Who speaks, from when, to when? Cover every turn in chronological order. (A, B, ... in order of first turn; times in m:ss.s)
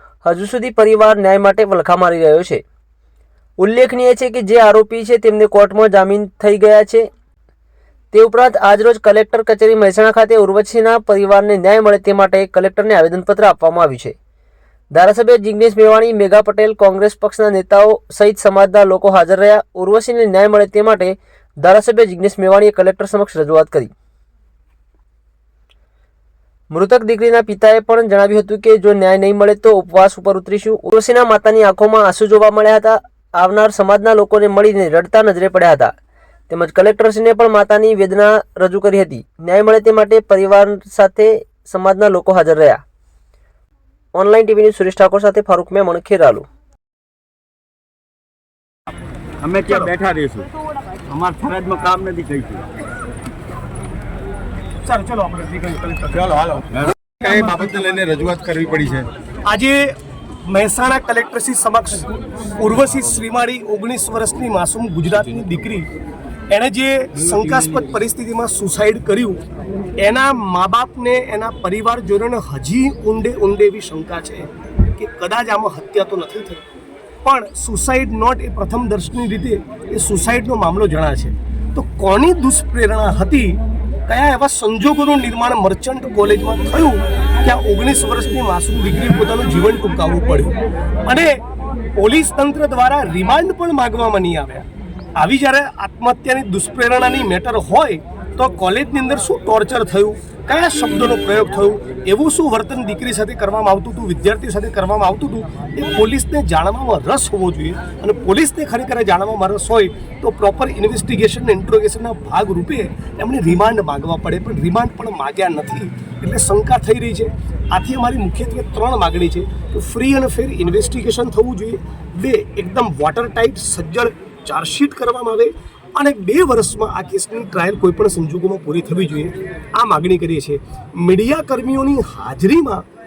0:00.2-0:02.6 A
0:03.6-0:07.1 A
0:08.1-0:14.2 A
0:14.9-0:23.9 A
0:26.7-0:35.9 A
0:36.5-0:42.8 A
0:44.1-0:46.4 A
0:49.4-0:50.5 B
0:49.5-0:49.9 C
0:51.1-0:52.6 B
0:54.8-0:56.3 C
0:56.3-0:59.1 D
0:59.4-1:05.9 C
1:06.5-1:09.4 C
1:10.0-1:16.6 C
1:17.2-1:31.4 C
1:32.0-2:12.8 C